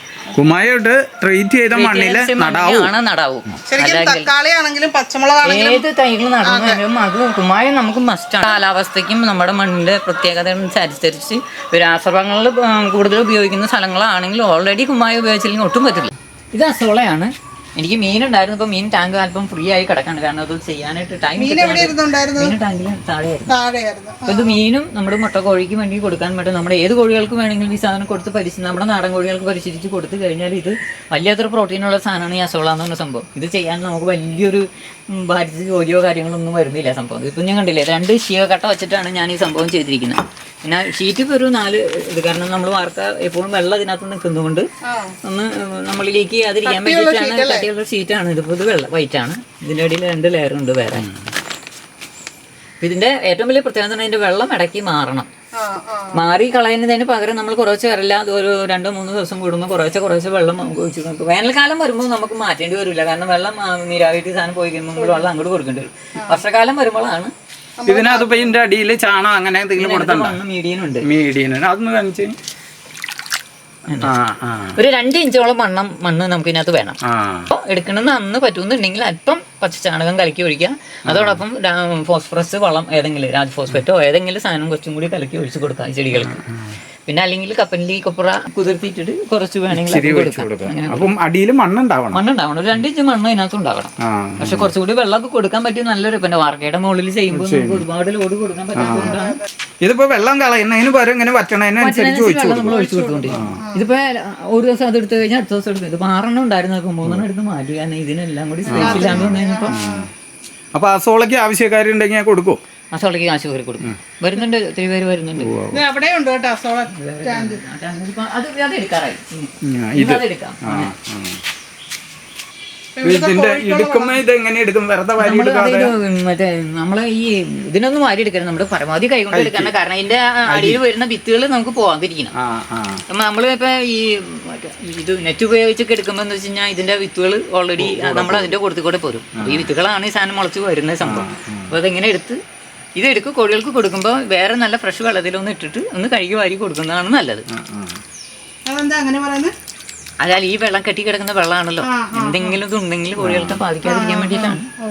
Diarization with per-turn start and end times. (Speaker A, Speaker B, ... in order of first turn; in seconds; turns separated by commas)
Speaker A: 0.3-2.9, Speaker B: 1.7-4.3, Speaker C: 3.7-5.8, Speaker B: 5.5-23.5, Speaker C: 6.4-6.8, Speaker C: 21.4-22.5, Speaker C: 23.5-24.6, Speaker B: 24.3-44.7, Speaker C: 44.9-45.1, Speaker B: 45.2-51.1, Speaker C: 46.7-47.7, Speaker B: 52.8-55.3, Speaker C: 55.6-56.2, Speaker B: 56.1-67.3, Speaker C: 67.8-68.5, Speaker A: 67.9-70.4, Speaker B: 69.8-71.1, Speaker A: 71.0-72.4, Speaker B: 73.9-74.2, Speaker A: 74.0-74.8, Speaker B: 74.8-77.0, Speaker A: 77.0-77.5, Speaker B: 77.5-86.4, Speaker A: 81.1-81.4, Speaker A: 86.3-86.8, Speaker B: 87.1-91.1, Speaker A: 89.7-92.2, Speaker B: 92.1-99.4, Speaker A: 94.0-94.7, Speaker A: 97.3-97.9, Speaker A: 98.8-99.2, Speaker A: 99.8-103.6, Speaker B: 101.8-109.8, Speaker C: 102.8-103.9, Speaker C: 108.7-110.1, Speaker A: 108.7-110.1, Speaker A: 110.7-112.6, Speaker B: 112.9-115.5, Speaker A: 115.4-115.8, Speaker C: 115.7-117.6, Speaker B: 116.9-120.9, Speaker A: 119.6-121.4, Speaker C: 123.0-124.2, Speaker A: 123.0-125.9, Speaker B: 125.2-132.3, Speaker A: 129.3-129.7, Speaker A: 130.5-130.8, Speaker A: 132.3-133.0, Speaker B: 133.1-142.4, Speaker A: 137.8-138.6, Speaker A: 139.4-139.7, Speaker A: 141.0-141.8, Speaker B: 142.9-147.4, Speaker A: 147.5-148.0, Speaker C: 148.7-149.5, Speaker B: 150.2-154.7, Speaker C: 151.8-152.6, Speaker A: 153.2-153.6, Speaker C: 153.8-154.6